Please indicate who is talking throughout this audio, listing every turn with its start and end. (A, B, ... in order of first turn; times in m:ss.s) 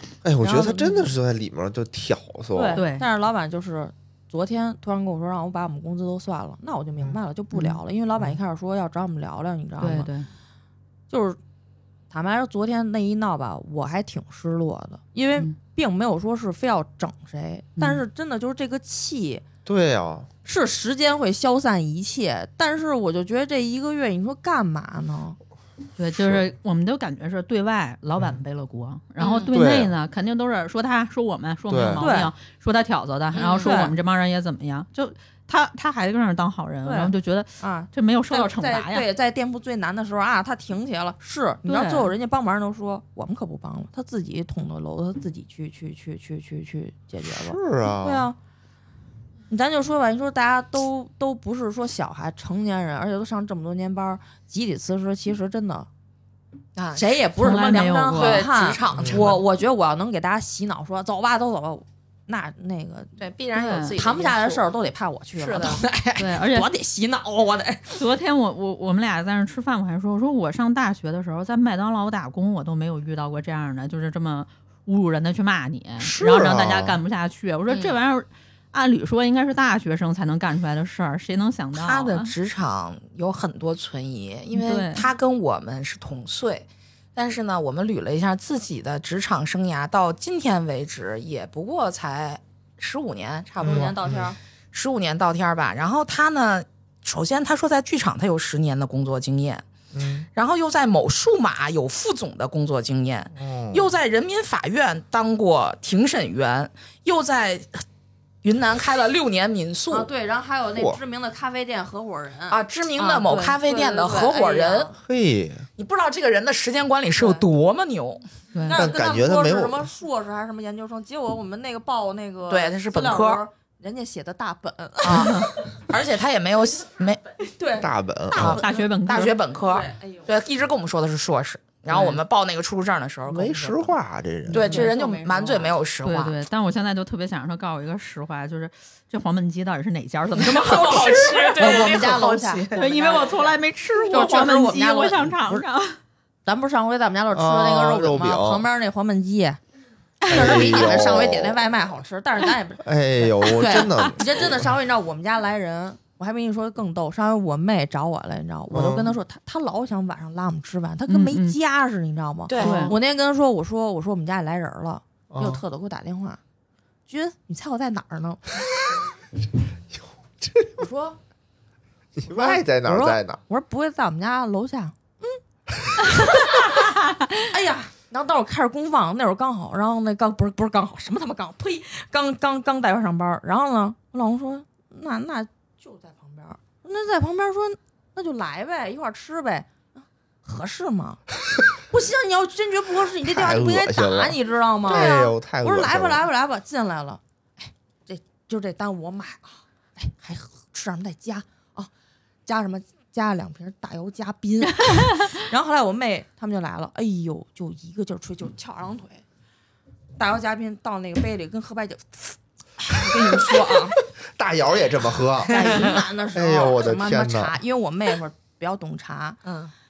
0:00.2-0:02.8 A
0:00.4-0:01.1 B
0:02.5-0:10.1 B
0:02.7-0:03.0 C
0:07.5-0:07.8 C
0:09.8-0:10.3 C
0:11.1-0:11.4 B
0:12.1-0:19.4 B
0:19.6-0:20.3 A
0:20.4-0:25.4 B
0:26.0-0:39.1 C
0:26.1-0:26.5 A
0:29.2-0:29.5 D
0:29.5-0:29.9 A
0:31.7-0:32.0 A
0:32.0-0:32.3 B
0:33.3-0:33.7 D
0:33.6-0:33.9 B
0:36.8-0:48.4 B
0:41.6-0:42.1 C
0:47.2-0:48.3 A
0:49.5-0:55.9 B
0:56.8-0:57.0 D
0:56.9-1:03.2 B
0:57.3-0:58.5 C
0:58.2-0:59.4 D
0:58.9-0:59.3 A
1:03.2-1:04.6 D
1:03.5-1:03.9 C
1:04.0-1:08.0 B
1:05.4-1:05.8 D
1:06.2-1:06.7 C
1:07.9-1:22.3 C
1:16.0-1:17.0 A
1:17.7-1:18.0 D
1:21.7-1:34.0 D
1:24.5-1:25.1 C
1:33.6-1:34.4 B
1:33.6-1:34.3 A
1:34.7-1:39.6 D
1:39.9-1:40.3 A
1:40.3-1:47.8 D
1:43.3-1:43.9 A
1:48.4-1:50.1 D
1:49.9-1:55.0 B
1:52.5-1:54.9 D
1:55.0-1:55.7 A
1:55.8-1:58.2 D
1:57.2-1:57.4 B
1:58.6-2:05.5 B
1:58.7-1:59.9 A
2:02.5-2:03.4 D
2:05.0-2:07.2 D
2:07.5-2:07.9 B
2:07.8-2:08.6 A
2:08.3-2:13.9 D
2:08.3-2:09.4 C
2:08.5-2:08.8 B
2:09.7-2:10.3 B
2:11.9-2:12.2 C
2:13.3-2:14.8 A
2:14.5-2:16.4 D
2:14.5-2:15.7 B
2:16.0-2:21.9 C
2:20.3-2:23.4 D
2:20.6-2:23.4 B
2:22.7-2:26.0 C
2:24.0-2:25.6 B
2:26.4-2:29.6 B
2:27.3-2:28.6 A
2:30.3-2:30.7 C
2:30.3-2:46.4 B
2:30.3-2:31.6 A
2:32.8-2:34.7 A
2:38.7-2:39.1 A
2:41.1-2:41.6 C
2:42.5-2:43.0 D
2:42.6-2:43.0 C
2:45.3-2:45.6 A
2:47.1-2:48.5 B
2:49.9-2:50.8 A
2:50.8-2:51.2 B
2:52.2-2:53.4 A
2:52.2-2:55.4 B
2:56.2-2:56.7 B
2:57.1-2:57.4 C
2:57.4-3:11.2 B
3:11.9-3:21.9 B
3:13.2-3:16.2 A
3:14.8-3:15.3 D
3:22.4-3:29.2 B
3:24.8-3:25.4 C
3:30.2-3:34.0 B
3:33.1-3:37.6 A
3:35.5-3:39.4 B
3:39.4-3:39.7 D